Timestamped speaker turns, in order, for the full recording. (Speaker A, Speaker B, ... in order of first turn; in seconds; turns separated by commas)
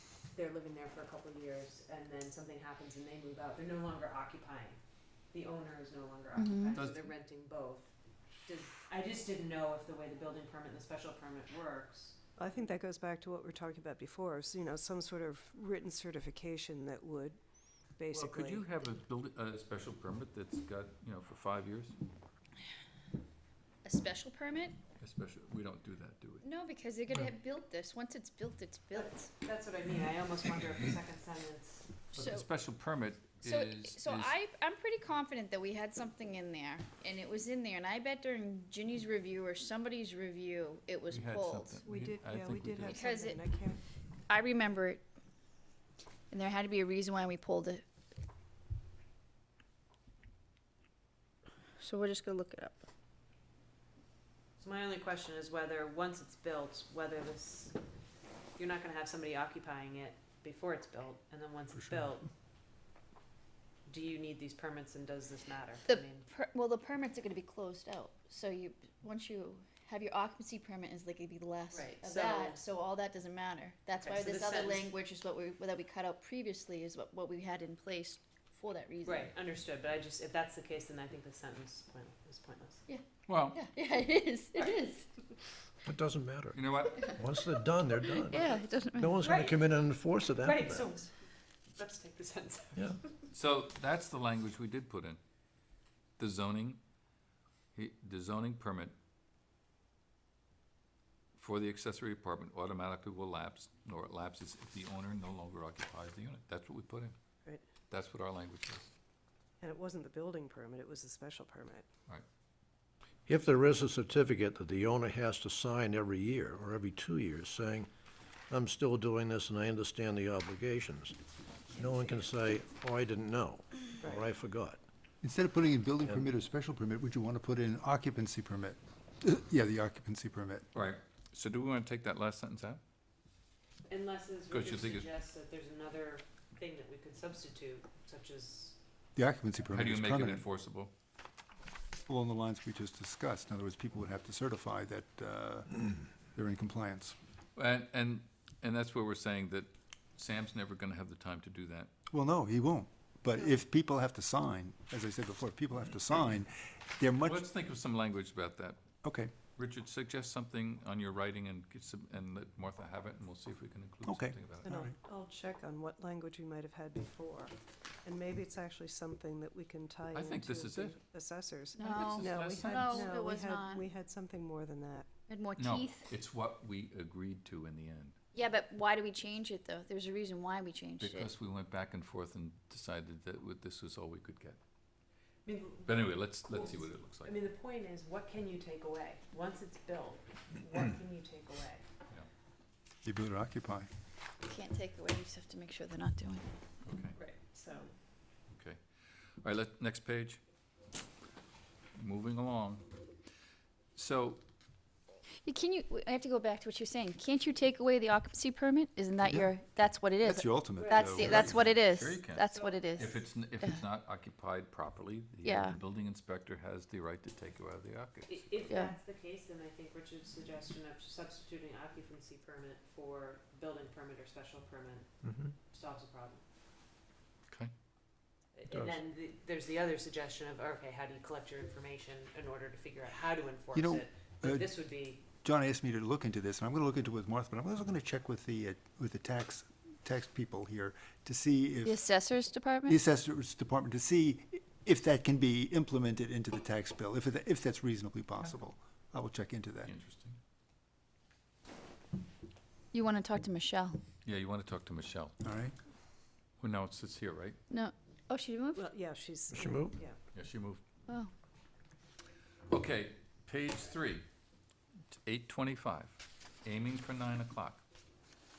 Speaker A: 0.3-4.8, Speaker A: 5.3-7.9, Speaker B: 6.3-6.8, Speaker C: 6.7-7.1, Speaker A: 8.4-12.2, Speaker D: 12.4-17.4, Speaker D: 17.9-18.6, Speaker C: 18.1-21.9, Speaker B: 23.8-24.8, Speaker C: 25.0-26.4, Speaker B: 26.4-29.3, Speaker A: 28.9-31.9, Speaker B: 32.1-32.5, Speaker C: 32.1-34.4, Speaker B: 33.4-41.8, Speaker C: 41.1-43.1, Speaker D: 41.8-43.8, Speaker B: 42.8-43.4, Speaker B: 44.3-45.0, Speaker B: 46.3-47.8, Speaker B: 51.8-52.8, Speaker A: 54.6-57.8, Speaker A: 58.5-62.3, Speaker A: 63.9-66.3, Speaker B: 65.9-79.3, Speaker A: 71.7-72.6, Speaker A: 74.0-74.9, Speaker A: 79.0-82.8, Speaker B: 82.9-85.3, Speaker C: 83.3-83.6, Speaker E: 85.9-86.5, Speaker C: 86.5-87.2, Speaker E: 87.2-88.3, Speaker B: 88.3-89.2, Speaker E: 89.0-90.8, Speaker A: 89.2-89.7, Speaker A: 90.4-91.2, Speaker A: 91.7-92.9, Speaker C: 93.3-95.2, Speaker C: 96.2-96.8, Speaker C: 97.7-98.9, Speaker C: 101.3-107.1, Speaker C: 107.9-108.9, Speaker D: 109.6-111.8, Speaker E: 113.3-117.9, Speaker E: 118.5-121.1, Speaker D: 121.8-122.2, Speaker E: 121.8-123.6, Speaker D: 124.0-124.3, Speaker E: 124.2-124.8, Speaker F: 125.2-130.7, Speaker C: 130.7-132.8, Speaker A: 133.9-138.8, Speaker C: 134.5-135.1, Speaker F: 139.2-140.4, Speaker C: 139.7-140.9, Speaker F: 142.1-147.2, Speaker C: 147.5-151.9, Speaker F: 152.1-157.4, Speaker C: 157.2-158.8, Speaker F: 159.0-159.3, Speaker C: 159.4-164.7, Speaker F: 164.1-164.9, Speaker D: 164.6-167.5, Speaker D: 168.0-175.1, Speaker C: 170.1-171.0, Speaker B: 171.8-173.9, Speaker C: 171.8-173.2, Speaker B: 175.3-176.1, Speaker C: 175.6-178.2, Speaker B: 178.3-181.3, Speaker C: 181.0-184.6, Speaker A: 185.4-191.8, Speaker C: 185.8-187.4, Speaker F: 193.0-193.9, Speaker B: 194.4-196.4, Speaker C: 196.8-197.2, Speaker A: 197.2-197.9, Speaker C: 198.5-198.8, Speaker C: 199.4-200.4, Speaker C: 201.9-202.9, Speaker C: 203.9-204.4, Speaker B: 205.4-213.8, Speaker F: 209.2-209.5, Speaker F: 210.2-211.7, Speaker A: 210.8-211.6, Speaker C: 211.2-218.5, Speaker A: 212.4-213.0, Speaker B: 215.4-215.8, Speaker A: 218.3-225.1, Speaker B: 218.7-218.9, Speaker A: 225.7-226.4, Speaker A: 228.5-235.2, Speaker F: 233.7-234.7, Speaker F: 235.4-242.0, Speaker B: 241.8-243.0, Speaker F: 242.8-249.9, Speaker C: 249.8-250.4, Speaker B: 252.9-254.0, Speaker C: 254.2-255.4, Speaker F: 255.4-255.7, Speaker C: 256.6-257.6, Speaker B: 257.7-258.9, Speaker D: 258.7-260.2, Speaker C: 260.3-260.8, Speaker C: 262.7-264.2, Speaker C: 265.2-267.8